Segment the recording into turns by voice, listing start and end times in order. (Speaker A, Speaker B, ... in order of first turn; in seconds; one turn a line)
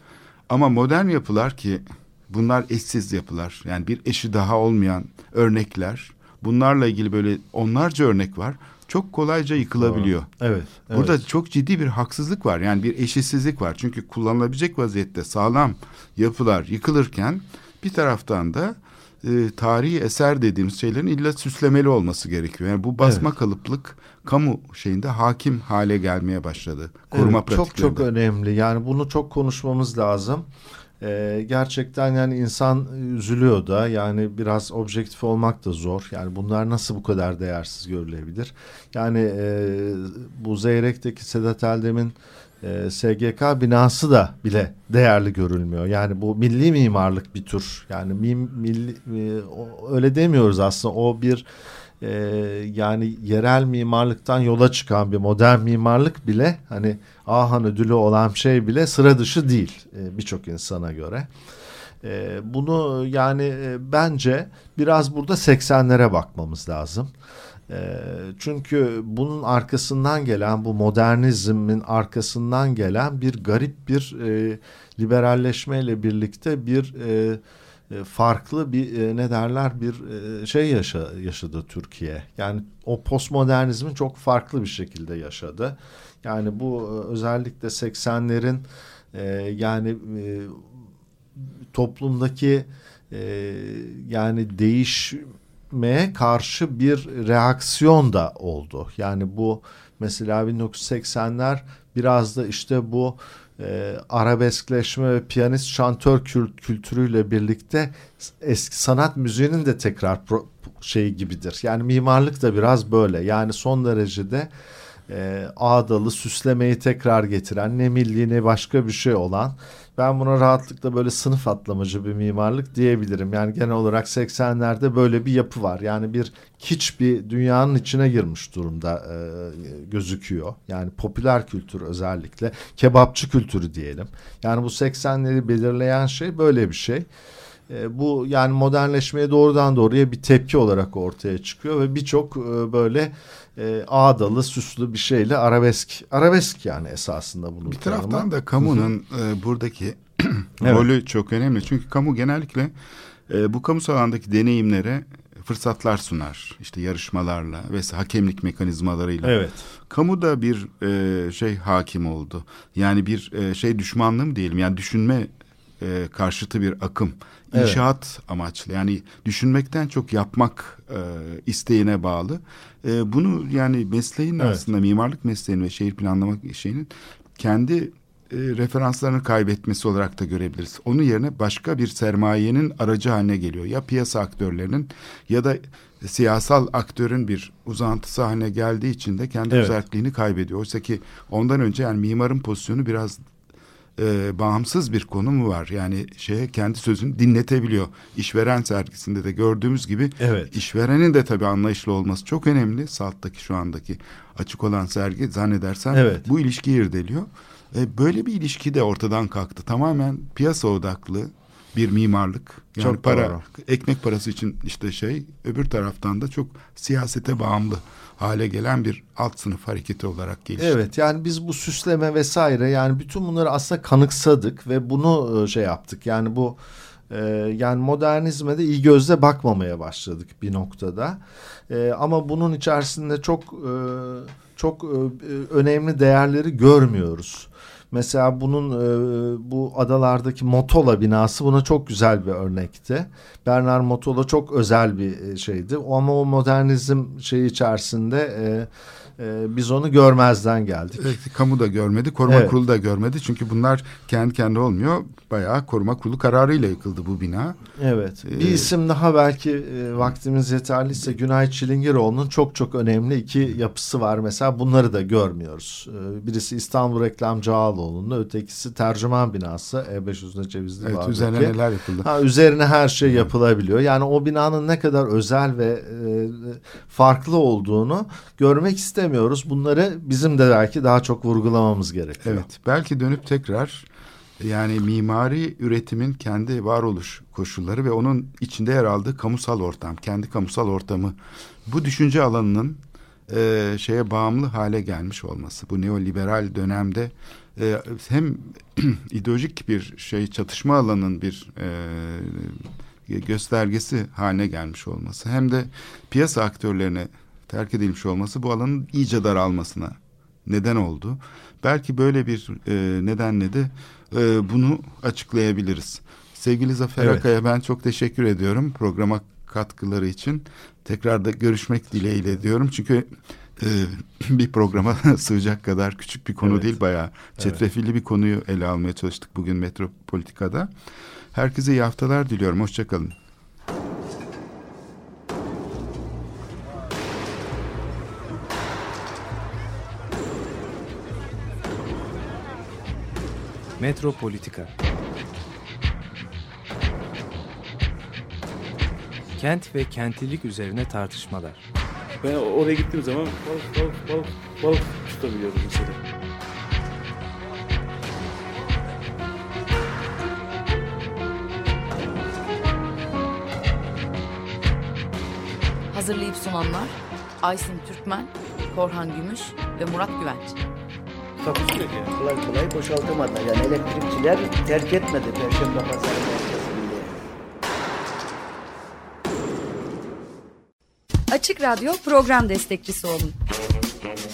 Speaker A: 0.5-10.3
Speaker B: 9.8-11.2
Speaker A: 10.9-28.1
Speaker B: 23.0-23.2
Speaker B: 27.1-30.4
Speaker B: 31.0-51.5
Speaker B: 52.0-61.3
Speaker B: 62.0-67.1
Speaker B: 67.7-90.6
Speaker B: 91.7-114.5
Speaker B: 115.1-137.1
Speaker B: 137.7-148.8
Speaker A: 147.6-152.7
Speaker B: 150.6-150.9
Speaker A: 153.3-193.2
Speaker B: 159.2-159.6
Speaker B: 167.5-167.8
Speaker B: 189.5-189.8
Speaker A: 194.0-220.8
Speaker B: 200.2-200.5
Speaker B: 205.9-206.2
Speaker B: 212.8-213.4
Speaker B: 220.6-251.1
Speaker A: 250.9-257.6
Speaker B: 252.3-252.6
Speaker B: 257.8-282.5
Speaker A: 258.2-258.7
Speaker A: 270.8-272.1
Speaker A: 282.2-283.9
Speaker A: 284.4-330.7
Speaker B: 317.0-317.2
Speaker B: 326.4-326.7
Speaker A: 331.3-333.1
Speaker C: 343.8-344.7
Speaker C: 349.4-351.6
Speaker D: 352.2-355.9
Speaker E: 365.9-370.6
Speaker D: 371.4-372.1
Speaker F: 372.1-377.2
Speaker G: 381.3-383.3